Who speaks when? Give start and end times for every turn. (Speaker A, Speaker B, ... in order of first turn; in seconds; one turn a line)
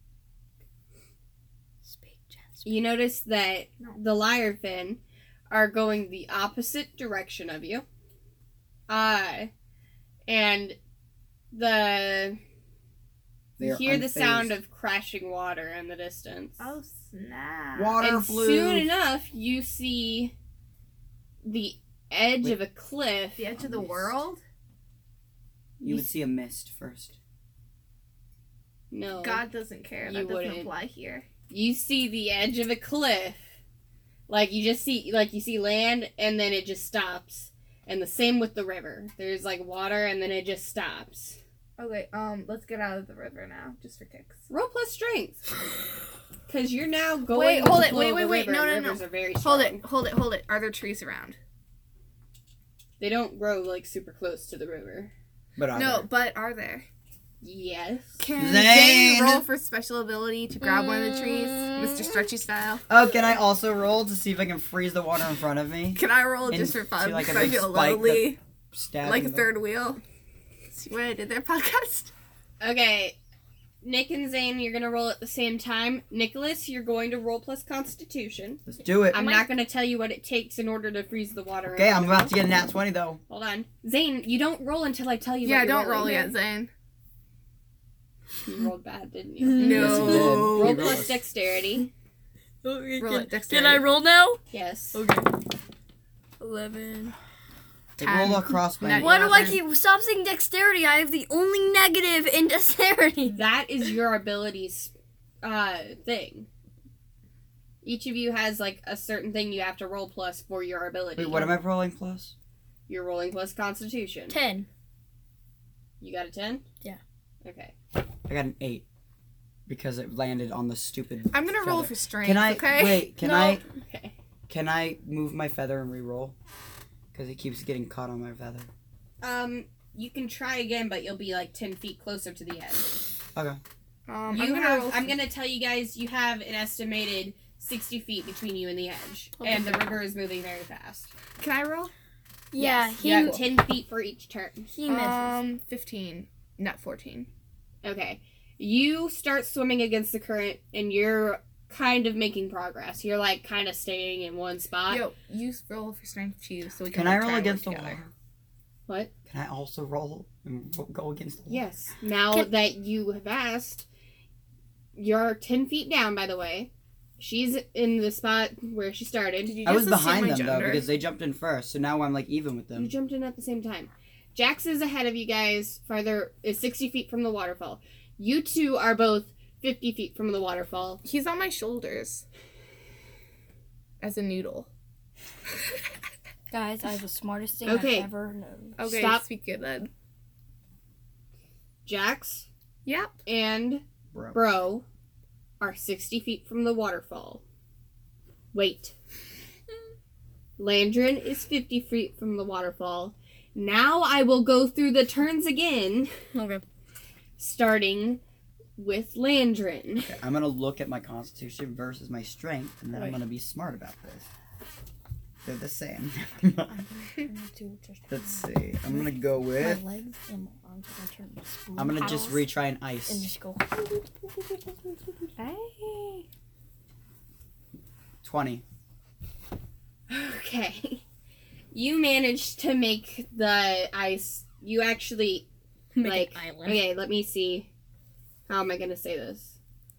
Speaker A: 1.8-2.7
Speaker B: 2.6-7.8
Speaker B: 8.9-9.5
Speaker B: 10.3-10.8
Speaker B: 11.5-12.4
Speaker C: 13.6-14.6
Speaker B: 13.6-16.7
Speaker D: 16.6-18.0
Speaker C: 17.8-18.9
Speaker B: 18.0-20.3
Speaker B: 21.4-23.5
Speaker D: 23.4-24.4
Speaker C: 23.6-24.1
Speaker C: 25.8-27.2
Speaker B: 28.9-29.5
Speaker D: 29.2-31.3
Speaker B: 30.0-30.7
Speaker B: 31.5-33.4
Speaker B: 34.3-41.4
Speaker D: 41.8-44.4
Speaker B: 44.5-45.5
Speaker B: 46.5-49.8
Speaker D: 47.3-51.4
Speaker B: 53.0-55.1
Speaker C: 55.6-56.1
Speaker D: 55.7-56.9
Speaker B: 57.4-58.2
Speaker D: 58.2-62.9
Speaker C: 58.4-59.5
Speaker A: 60.6-62.3
Speaker C: 62.9-69.5
Speaker D: 66.0-68.4
Speaker D: 69.0-70.0
Speaker D: 70.7-72.1
Speaker B: 72.6-73.2
Speaker B: 73.8-82.4
Speaker C: 78.7-79.3
Speaker C: 81.7-83.2
Speaker B: 83.3-86.3
Speaker D: 85.4-86.7
Speaker B: 88.4-91.9
Speaker A: 89.5-90.8
Speaker D: 89.6-90.9
Speaker C: 89.6-91.2
Speaker A: 92.6-94.4
Speaker D: 93.0-93.9
Speaker B: 94.5-95.0
Speaker A: 94.9-95.3
Speaker A: 96.4-97.2
Speaker C: 98.0-99.6
Speaker D: 98.0-99.6
Speaker A: 99.0-103.4
Speaker B: 103.3-106.5
Speaker B: 107.8-111.6
Speaker C: 111.2-112.3
Speaker B: 112.9-114.4
Speaker A: 114.3-114.7
Speaker B: 116.0-116.6
Speaker B: 117.4-117.7
Speaker C: 118.3-118.8
Speaker C: 119.7-123.6
Speaker D: 121.3-123.1
Speaker A: 123.2-123.6
Speaker B: 123.8-124.2
Speaker C: 124.5-126.3
Speaker C: 127.1-128.7
Speaker B: 129.2-132.9
Speaker C: 133.3-133.6
Speaker D: 134.1-135.2
Speaker B: 134.3-141.1
Speaker A: 139.4-140.0
Speaker D: 141.4-141.9
Speaker A: 142.5-143.4
Speaker D: 142.6-143.4
Speaker B: 142.7-144.7
Speaker A: 144.7-145.4
Speaker D: 144.9-147.3
Speaker B: 147.8-155.1
Speaker D: 154.9-158.0
Speaker C: 156.9-158.1
Speaker C: 159.3-161.6
Speaker B: 161.5-163.9
Speaker B: 165.0-169.8
Speaker D: 169.4-170.9
Speaker C: 169.7-172.9
Speaker B: 172.8-181.0
Speaker D: 181.0-182.2
Speaker D: 184.0-184.7
Speaker A: 186.5-188.8
Speaker B: 187.7-188.1
Speaker D: 188.8-189.9
Speaker B: 188.8-189.2
Speaker B: 191.9-192.5
Speaker D: 192.8-193.2
Speaker B: 193.3-194.8
Speaker C: 194.1-194.4
Speaker B: 195.6-197.4
Speaker B: 198.5-198.9
Speaker B: 200.6-206.1
Speaker A: 206.3-206.6
Speaker B: 207.4-208.2
Speaker B: 208.8-210.1
Speaker C: 210.0-214.3
Speaker C: 215.4-216.8
Speaker A: 216.7-222.4
Speaker C: 218.1-219.8
Speaker C: 221.8-223.3
Speaker A: 223.1-223.6
Speaker D: 225.4-226.2
Speaker C: 228.2-228.6
Speaker B: 230.1-231.0
Speaker B: 231.7-235.5
Speaker A: 235.9-236.8
Speaker B: 236.0-237.7
Speaker B: 238.5-239.6